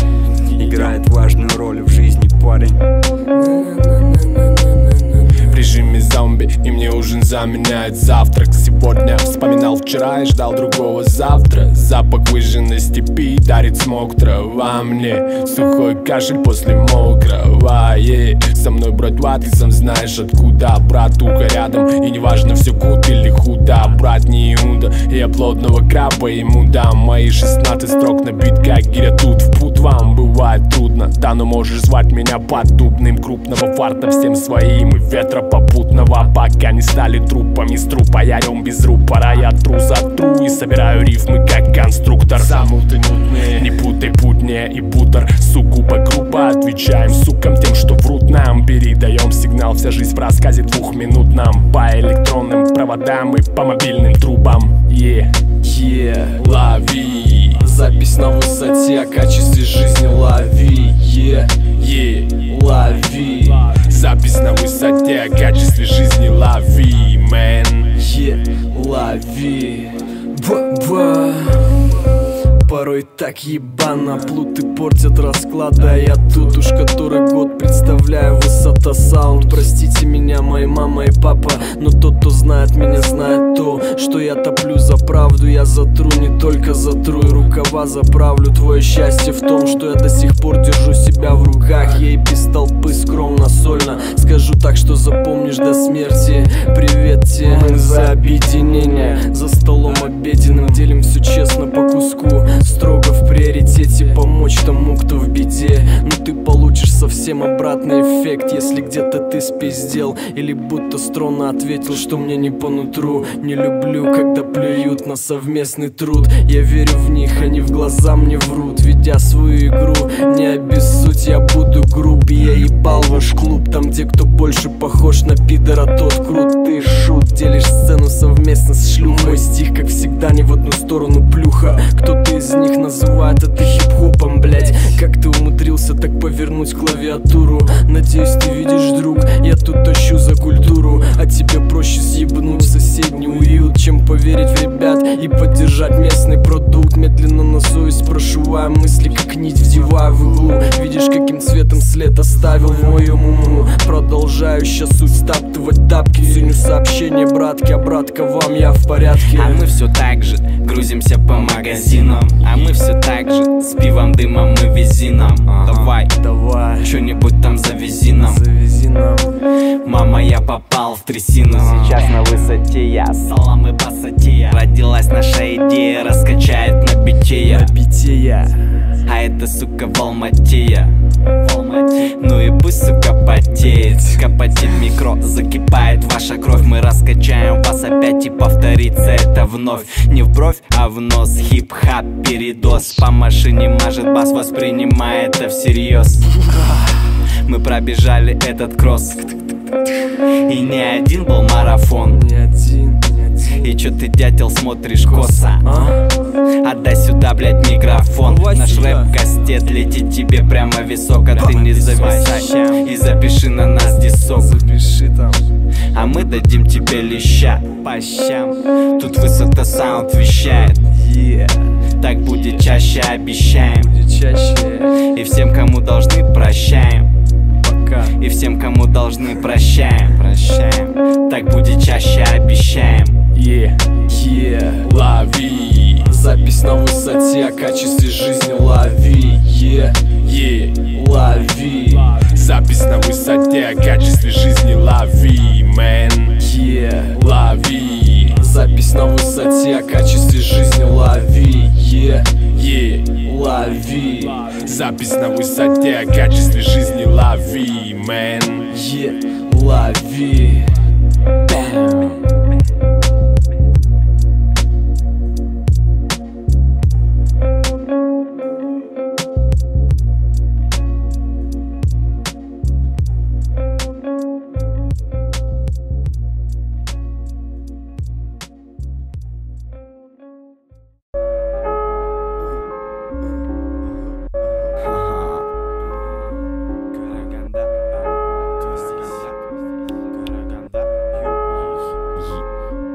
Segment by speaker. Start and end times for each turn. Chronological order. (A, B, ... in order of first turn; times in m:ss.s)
0:00.6-0:02.8 A
0:03.3-0:05.7 B
0:05.4-0:55.4 C
0:42.3-0:43.7 B
0:55.6-0:56.6 B
0:56.4-0:57.7 C
0:57.6-1:01.7 B
1:01.7-1:02.5 C
1:02.4-1:03.8 B
1:03.7-1:07.9 C
1:08.0-1:12.0 B
1:12.6-2:39.7 B
2:39.3-2:46.1 D
2:45.5-2:47.0 B
2:46.8-2:48.4 D
2:48.1-2:49.4 B
2:49.8-2:57.7 D
2:51.4-2:52.1 B
2:57.4-2:58.6 B
2:59.0-3:16.4 D
3:03.7-3:04.0 B
3:16.3-3:16.9 B
3:17.4-3:19.4 D
3:20.5-3:22.2 D
3:22.0-3:23.8 B
3:23.6-3:25.7 D
3:25.0-3:26.0 B
3:26.6-3:34.6 D
3:28.2-3:29.2 B
3:31.4-3:32.5 B
3:34.3-3:35.4 B
3:35.9-3:40.9 D
3:40.9-3:41.7 B
3:42.0-3:43.9 D
3:42.3-3:42.7 B
3:43.8-3:45.0 B
3:45.1-3:47.1 D
3:47.6-3:48.2 B
3:48.2-3:53.2 D
3:53.3-3:53.8 C
3:54.1-3:54.9 B
3:54.8-3:56.1 C
3:56.0-4:00.2 B
4:00.2-4:01.0 C
4:00.9-4:02.2 B
4:02.2-4:06.4 C
4:06.4-4:07.2 B
4:07.1-4:08.4 C
4:08.4-4:12.5 B
4:12.5-4:13.2 C
4:13.2-4:14.6 B
4:14.5-4:18.7 C
4:18.7-4:20.8 B
4:21.5-4:22.2 B
4:44.8-4:45.4 D
4:46.9-4:48.0 D
4:48.6-4:49.4 D
4:50.1-4:51.6 D